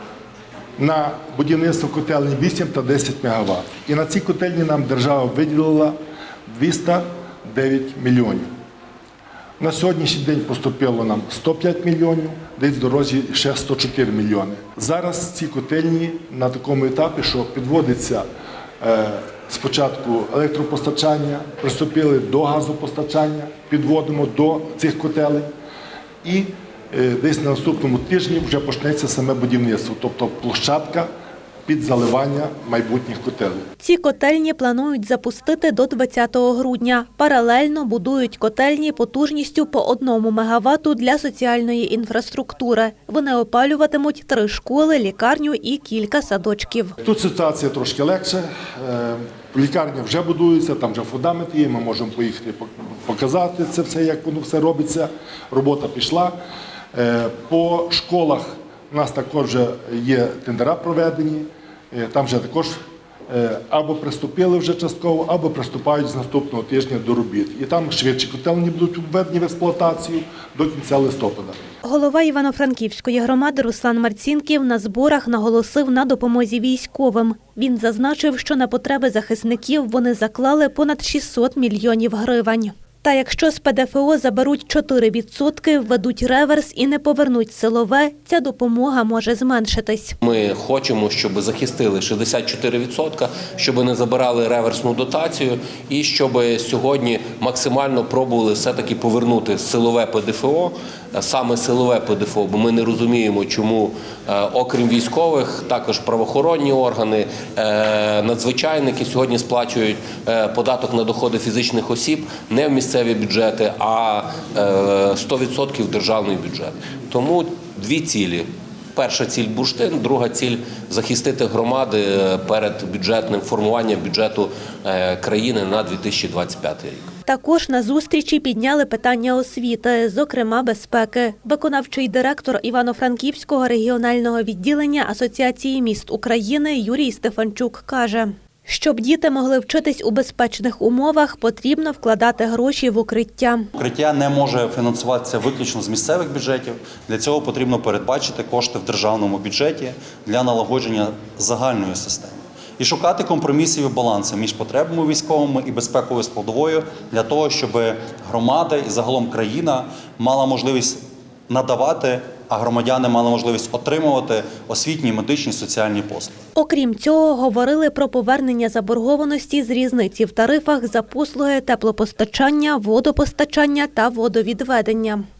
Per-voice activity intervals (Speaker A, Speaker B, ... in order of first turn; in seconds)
Speaker A: 0.8-6.0, 6.5-8.5, 9.6-18.2, 18.8-25.5, 26.2-31.1, 31.7-33.6, 47.0-56.3, 56.9-62.8, 63.3-71.6
Speaker B: 33.8-47.0, 71.8-90.2, 127.3-143.7, 166.6-175.2
Speaker C: 90.2-127.1
Speaker D: 143.8-166.4